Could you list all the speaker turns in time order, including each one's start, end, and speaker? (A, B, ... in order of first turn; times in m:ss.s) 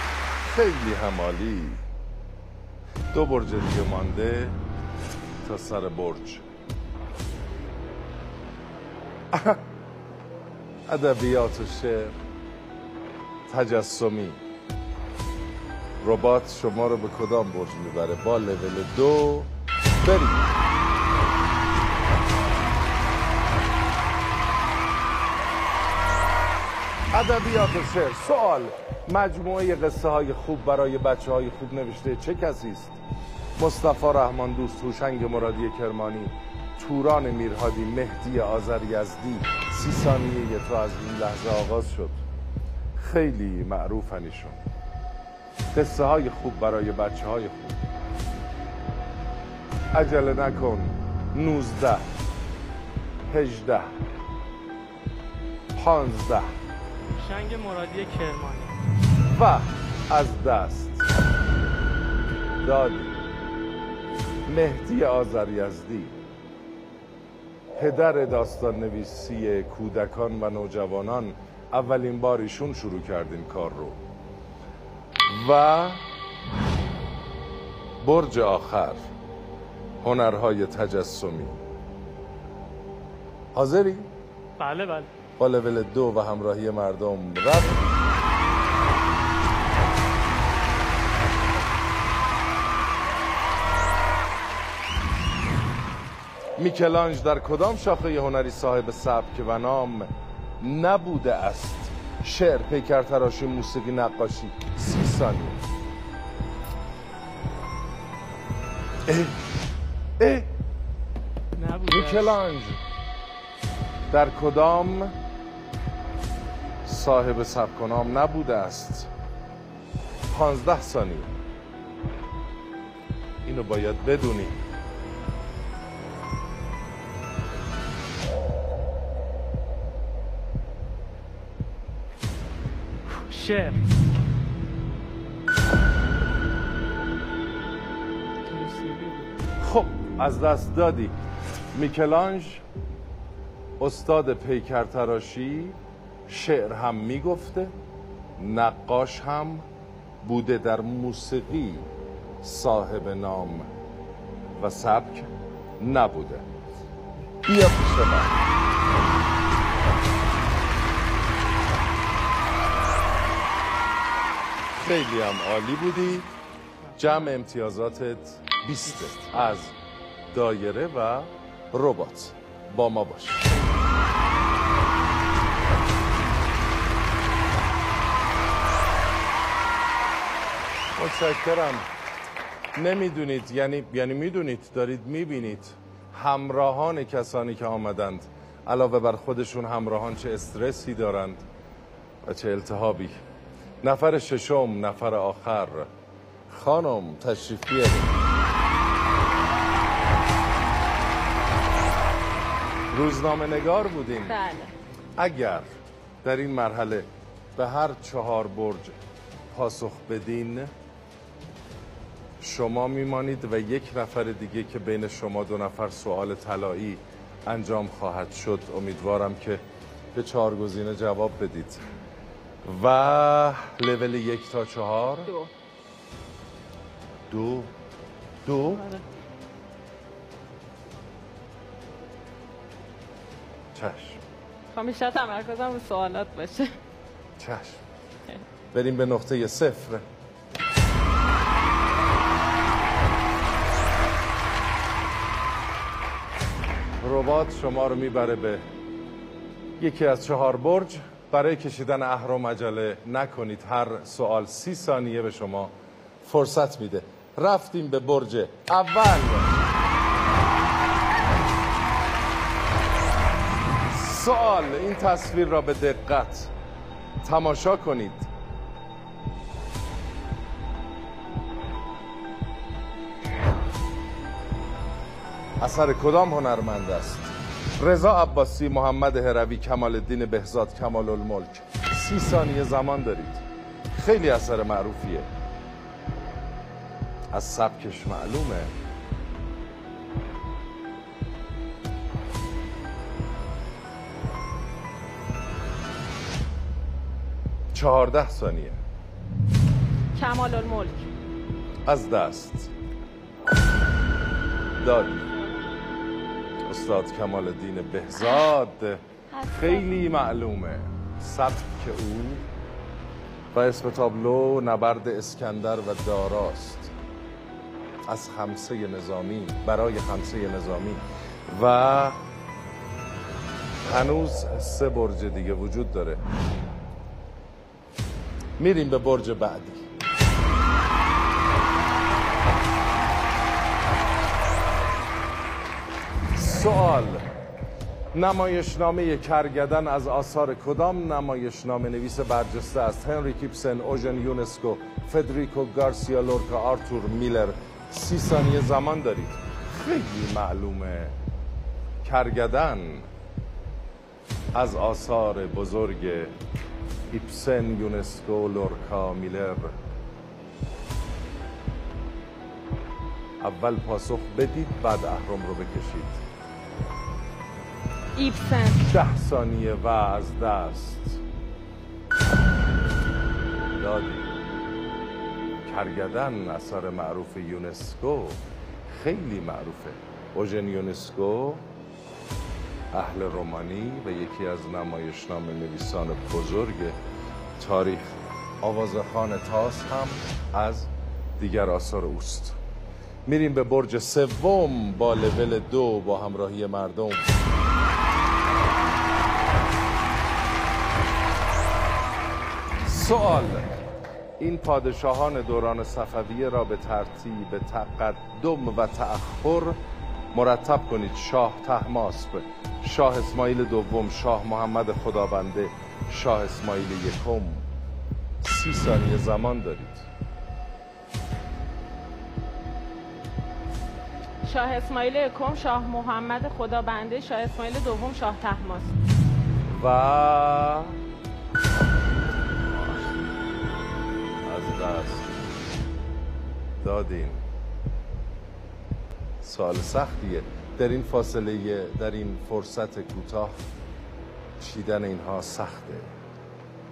0:00.4-0:01.8 A
0:03.1-0:04.6 A
0:05.4-0:06.4 A
0:09.3-0:09.6 A
0:10.9-0:12.2 A
0:13.5-0:14.4 A
0:16.0-0:19.5 A
0:20.0-0:20.4 A
0:27.1-0:33.0 A
0:33.6-0:42.2 A
0:43.0-0:44.6 A
0:45.7-0:47.9 A
0:49.9-0:52.0 A
0:53.3-0:53.9 A
0:55.7-0:56.5 A
0:57.1-0:58.7 B
0:59.3-1:01.0 A
1:02.6-1:03.1 A
1:04.5-1:06.2 A
1:07.8-1:14.0 A
1:15.3-1:16.0 A
1:18.0-1:19.1 A
1:20.0-1:21.6 A
1:23.5-1:24.1 A
1:24.6-1:25.1 B
1:25.4-1:27.9 A
1:36.6-1:45.6 A
1:49.1-1:49.4 A
1:50.2-1:50.5 A
1:51.6-1:52.4 B
1:51.9-1:52.8 A
1:54.1-1:55.1 A
1:56.8-1:59.1 A
2:00.3-2:01.3 A
2:03.4-2:04.6 A
2:13.1-2:13.8 B
2:18.5-2:19.3 B
2:19.6-2:21.1 A
2:21.7-2:22.6 A
2:23.8-2:27.7 A
2:28.4-2:29.6 A
2:30.2-2:31.9 A
2:32.4-2:33.7 A
2:34.6-2:35.3 A
2:35.8-2:36.4 A
2:37.4-2:38.3 A
2:44.7-2:46.3 A
2:46.8-2:47.3 B
2:47.0-2:49.7 A
2:48.9-2:49.6 B
2:50.3-2:53.5 A
3:01.0-3:01.8 A
3:02.8-3:11.4 A
3:12.2-3:13.2 A
3:13.8-3:15.9 A
3:16.5-3:18.1 A
3:22.9-3:24.3 A
3:24.2-3:24.7 C
3:25.2-3:25.7 A
3:26.2-3:29.0 A
3:29.5-3:30.7 A
3:32.4-3:39.6 A
3:40.1-3:41.8 A
3:42.6-3:45.3 A
3:47.3-3:47.7 A
3:48.4-3:48.8 A
3:48.6-3:49.0 C
3:53.7-3:54.2 A
3:54.7-3:56.7 C
3:57.4-3:57.8 A
3:58.7-4:00.0 A
4:07.0-4:08.6 A
4:09.8-4:19.6 A
4:23.9-4:26.5 A
4:27.2-4:28.3 A
4:35.6-4:45.3 A
4:47.3-4:48.7 A
4:57.7-4:58.8 A
5:00.1-5:01.1 C
5:01.8-5:02.7 A
5:04.8-5:05.2 A
5:06.7-5:12.4 A
5:09.3-5:10.0 C
5:13.5-5:16.9 A
5:18.0-5:22.2 A
5:23.8-5:26.2 A
5:28.6-5:29.8 A
5:36.3-5:37.2 A
5:38.1-5:51.2 A
5:52.0-5:53.1 A
5:54.5-5:56.3 A
5:57.1-5:59.7 A
6:03.4-6:06.2 A
6:08.2-6:08.8 C
6:08.8-6:11.2 A
6:13.8-6:14.3 A
6:15.6-6:21.6 A
6:22.9-6:27.0 A
6:27.6-6:32.6 A
6:33.2-6:37.3 A
6:42.8-6:43.7 A
6:44.4-6:49.8 A
6:50.3-6:57.6 A
6:58.4-7:00.0 A
7:04.4-7:09.0 C
7:09.7-7:11.0 A
7:12.7-7:13.1 A
7:14.4-7:15.3 A
7:16.8-7:17.4 A
7:19.4-7:23.6 A
7:24.6-7:26.1 A